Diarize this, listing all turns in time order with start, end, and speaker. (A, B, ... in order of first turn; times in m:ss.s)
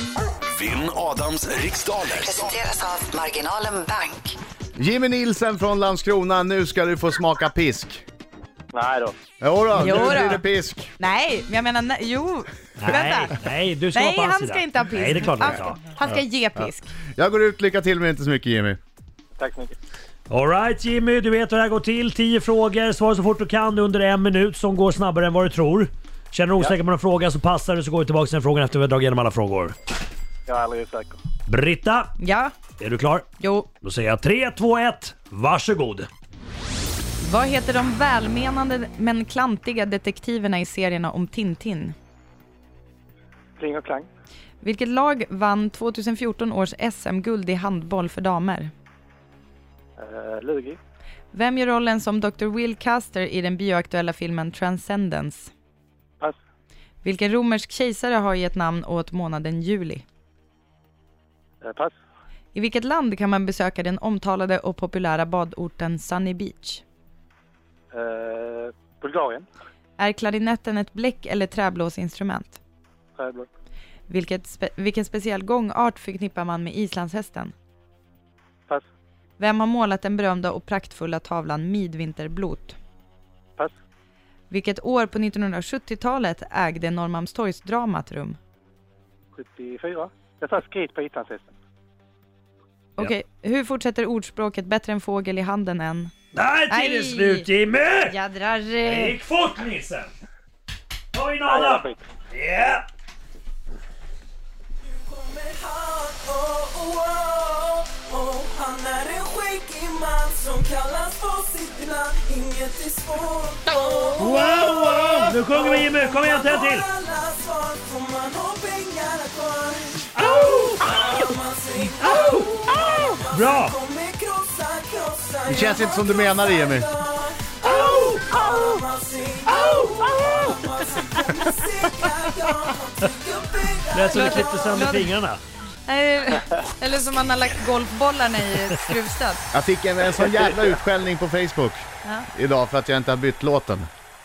0:00.5-0:02.6 A
0:02.2-0:04.4 B
0:04.8-0:08.0 C
0:08.7-0:09.2 D
0:09.4-0:10.9 C
0:09.8-0:10.4 E
0:11.0-0:13.4 E
0:12.8-0:16.0 F
0:13.9-0:16.9 E
0:16.6-0:18.8 C
0:19.4-0:19.8 D
0:20.3-0:29.8 F
0:30.4-0:31.2 D
0:31.4-0:32.1 F
0:32.2-0:32.5 E
0:32.8-0:33.2 F
0:33.4-0:33.7 E
0:33.8-0:36.1 F
0:37.2-0:41.9 E
0:43.6-0:44.1 D
0:44.6-0:48.7 E
0:50.0-0:50.8 D
0:51.3-0:55.5 E
0:57.0-1:00.0 E
1:01.6-1:01.9 D
1:02.5-1:06.8 E
1:07.9-1:09.5 D
1:10.0-1:12.6 E
1:13.2-1:13.5 D
1:14.1-1:17.5 E
1:19.4-1:22.8 E
1:24.5-1:28.4 E
1:29.3-1:31.5 D
1:33.0-1:36.1 E
1:36.3-1:38.1 F
1:36.7-1:37.5 E
1:38.0-1:39.2 E
1:38.8-1:40.1 F
1:41.1-1:42.9 F
1:41.4-1:42.0 D
1:44.8-2:14.7 G
1:54.1-1:56.9 F
2:00.1-2:01.1 F
2:02.0-2:02.5 F
2:03.3-2:03.8 F
2:05.5-2:06.9 C
2:07.6-2:08.8 F
2:09.5-2:10.7 F
2:13.9-2:15.4 F
2:14.1-2:15.1 E
2:15.8-2:19.4 E
2:19.5-2:23.9 C